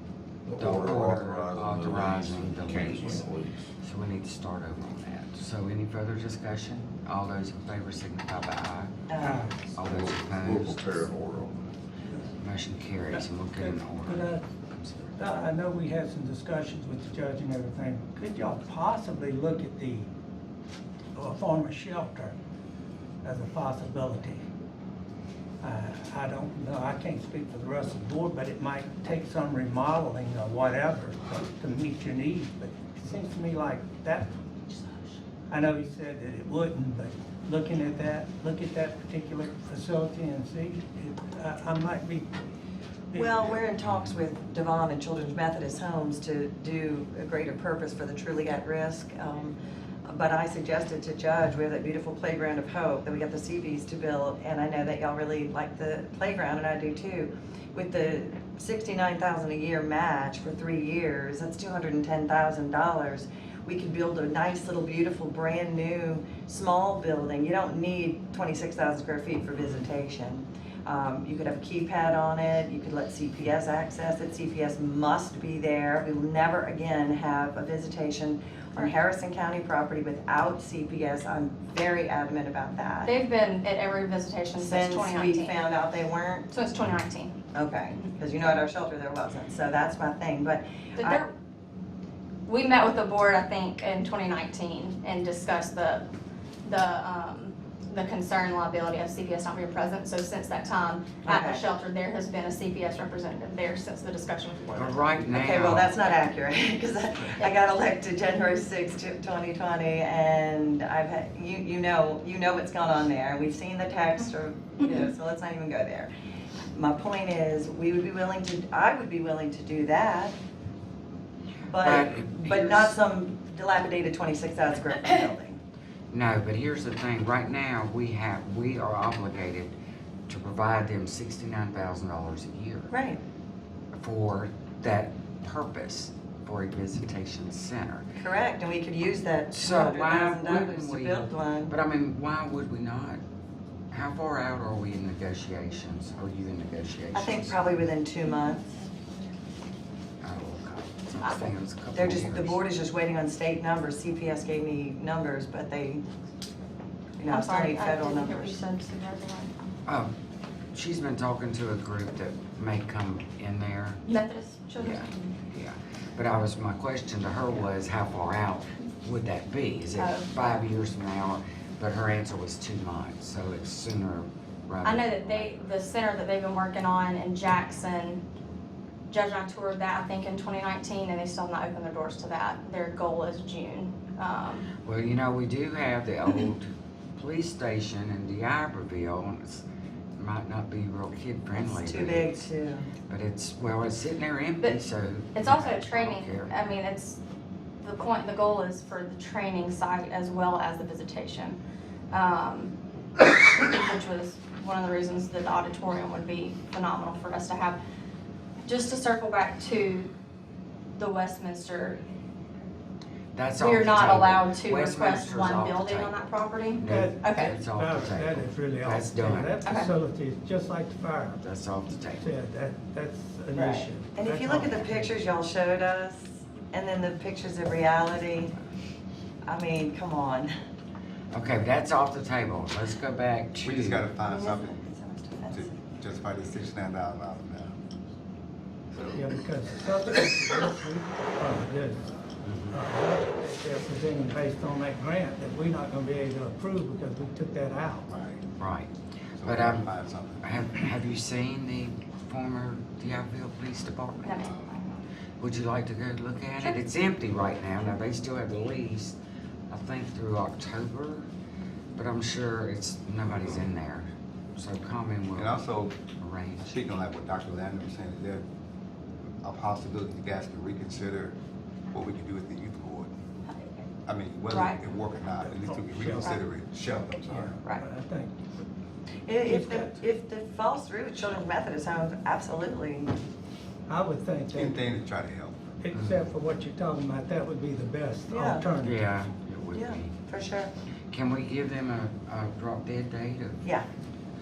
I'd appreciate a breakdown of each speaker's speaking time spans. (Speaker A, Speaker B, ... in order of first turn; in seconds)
Speaker A: 0.5-3.5, 9.8-11.7
Speaker B: 0.6-3.3, 3.8-8.9, 9.7-11.1, 12.4-15.3, 104.8-106.0, 121.8-123.0, 126.1-129.7, 130.3-132.9, 133.9-138.1, 139.5-143.2, 143.9-147.6, 150.2-152.6, 159.9-160.1, 160.7-164.0, 164.8-175.7, 184.8-189.6, 190.2-192.5, 193.1-196.5, 213.3-219.6, 221.4-222.3, 231.3-234.1, 242.4-242.8, 248.6-248.9, 249.4-249.9, 250.4-254.5, 255.4-259.2, 259.7-261.3, 262.0-265.6, 266.2-266.7, 285.9-286.3, 288.8-290.1, 291.1-293.6
Speaker C: 9.1-9.5, 43.1-83.1, 84.6-86.5, 87.5-91.2, 101.2-101.6, 105.2-116.1, 116.7-120.3, 121.7-125.6, 132.9-133.2, 138.2-141.8, 147.1-148.6, 151.9-156.1, 157.2-158.7, 191.6-192.9, 223.6-228.6, 229.5-230.5, 234.2-235.8, 279.3-283.1, 288.3-288.7, 289.7-290.7
Speaker D: 9.2-9.6, 13.1-14.4, 15.2-20.1, 21.2-22.4, 23.2-24.4, 25.6-34.4, 35.5-42.3, 43.1-43.5, 216.9-221.4, 222.1-225.2, 239.1-242.1, 242.7-248.1, 275.4-276.3, 277.3-278.4, 279.4-280.0, 283.9-284.8, 285.8-289.0
Speaker E: 83.0-85.7, 86.5-87.3, 91.0-91.3, 92.5-96.1, 96.6-105.2, 148.6-148.9, 151.2-151.5, 157.3-159.6, 164.1-165.3, 170.0-170.3, 174.8-178.2, 179.1-184.7, 195.3-197.2, 197.8-201.6, 202.1-207.8, 208.6-210.1, 211.0-212.0, 213.6-217.6, 219.6-219.9, 254.2-254.7, 274.5-274.8
Speaker F: 233.6-234.8, 235.5-237.7, 248.1-248.4, 249.4-250.4, 254.4-254.8, 265.4-266.0, 266.7-268.4, 269.4-271.4, 271.9-273.1, 274.1-277.6, 284.5-285.6